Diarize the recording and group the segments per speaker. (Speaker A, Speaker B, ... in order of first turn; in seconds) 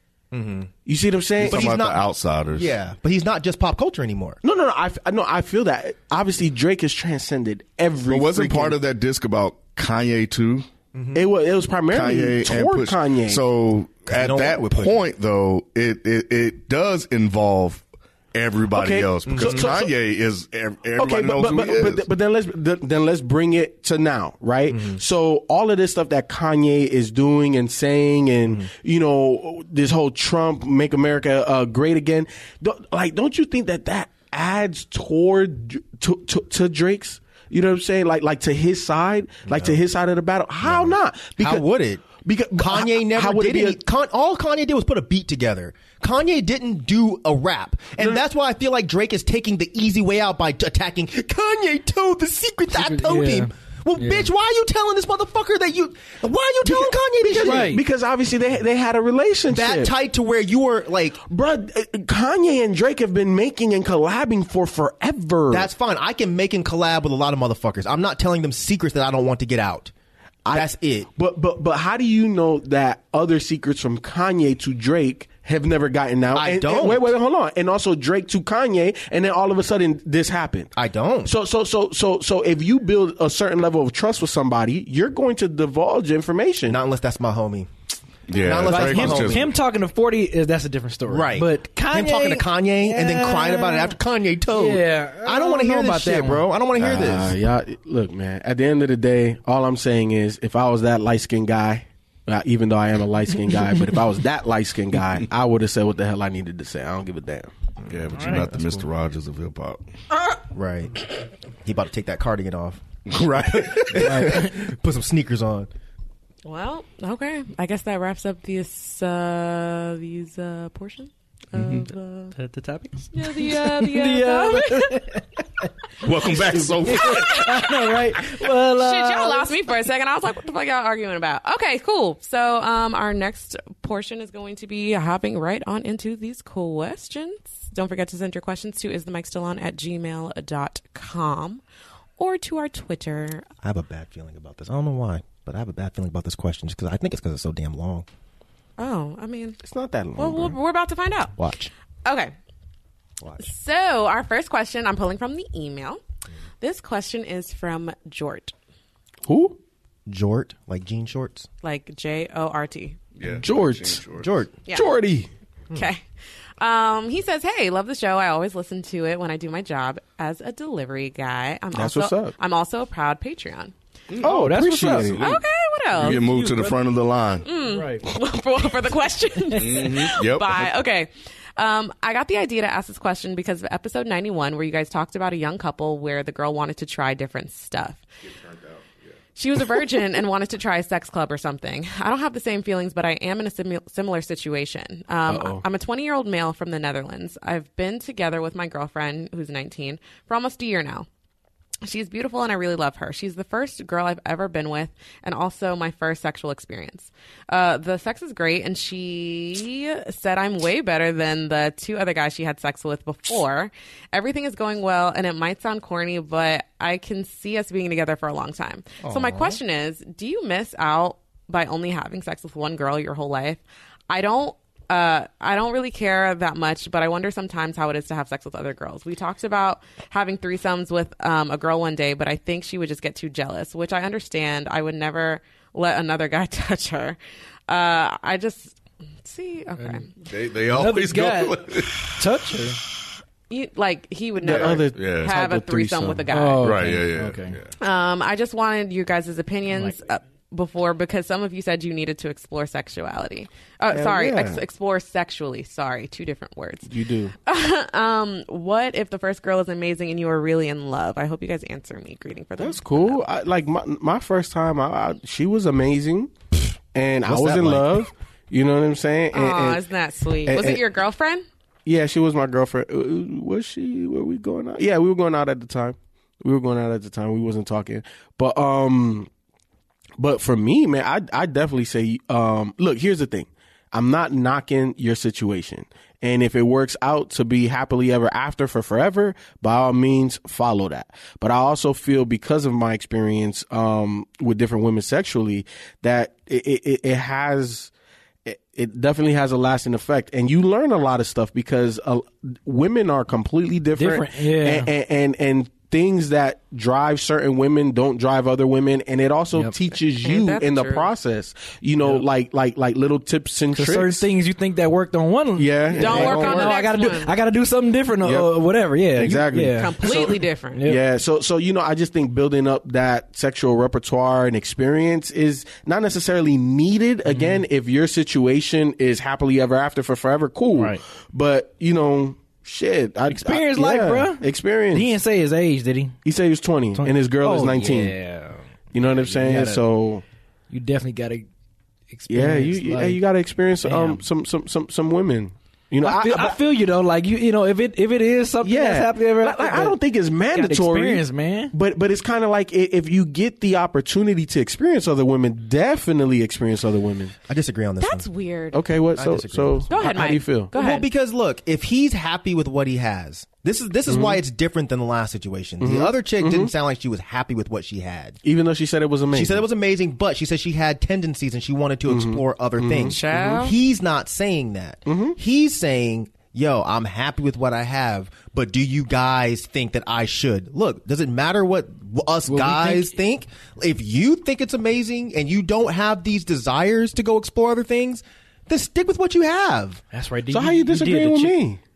Speaker A: 0.3-0.7, 1.4-4.4, 10.9-11.2, 14.1-15.0, 19.3-19.7, 24.7-25.0, 39.5-39.8, 40.6-57.8, 59.5-61.2, 65.5-69.9, 70.5-71.1, 76.3-77.1, 80.8-81.3, 86.7-87.7, 88.3-89.5, 91.1-97.3, 110.5-111.1, 111.6-115.7, 143.6-148.1, 151.4-151.7, 153.2-153.4, 160.1-161.5, 164.1-164.6, 219.0-219.6, 267.2-268.1, 357.5-358.3, 359.1-359.9, 360.7-368.4, 369.3-390.0
Speaker B: 0.9-1.7, 4.4-8.8, 11.2-13.4, 18.7-19.9, 21.0-43.8, 56.6-59.9, 61.2-65.7, 70.5-80.7, 81.2-86.8, 96.8-107.5, 149.6-150.6, 159.3-159.6, 163.4-164.0, 164.7-165.3, 171.7-172.3, 174.2-175.3, 195.3-195.7, 244.4-246.3, 253.9-254.6, 256.9-257.3, 262.6-266.3, 266.9-269.8, 270.4-270.9, 271.9-279.3, 280.2-297.9, 298.4-314.3, 315.6-316.7, 318.2-318.5, 319.1-335.1, 336.2-338.1, 338.9-340.2, 342.3-346.6, 348.6-357.4, 358.7-360.7, 364.1-364.4, 365.8-366.7, 368.4-369.7, 372.1-373.6, 375.1-375.4, 390.5-391.8
Speaker C: 1.4-2.8, 8.1-10.7, 11.9-22.0, 88.3-89.5, 107.9-109.8, 113.1-114.1, 121.6-121.8, 126.0-127.2, 163.2-164.3, 176.0-177.5, 179.5-180.7, 188.4-188.8, 240.2-242.2, 244.5-245.4, 246.6-247.7
Speaker D: 52.7-54.3, 57.4-57.8, 88.6-94.0, 94.5-96.4, 108.1-108.5, 114.0-114.6, 122.3-125.4, 126.7-129.5, 174.2-175.3, 176.0-176.8, 177.6-178.1, 240.7-242.8, 246.3-247.6, 249.7-250.0, 303.9-304.9, 313.7-321.0, 327.3-327.6, 330.7-331.0, 333.3-336.2, 336.9-339.8, 340.7-341.5, 342.1-343.2, 343.8-344.2, 346.0-350.0, 350.5-351.7, 382.5-383.1, 390.1-391.6
Speaker E: 116.5-122.3, 123.1-125.2, 126.2-141.6, 142.2-143.5, 148.8-149.6, 150.2-151.3, 152.1-152.3, 153.4-156.0, 156.6-158.5, 161.6-163.0, 164.7-165.0, 165.7-166.0, 166.6-173.7, 175.2-176.2, 177.4-188.1, 189.4-201.1, 201.8-237.2, 237.7-240.1, 243.5-247.0, 247.8-256.9, 257.4-263.2, 269.3-271.4, 310.2-311.1, 315.9-317.3, 319.8-320.8, 358.0-358.9, 359.9-361.1, 373.1-373.7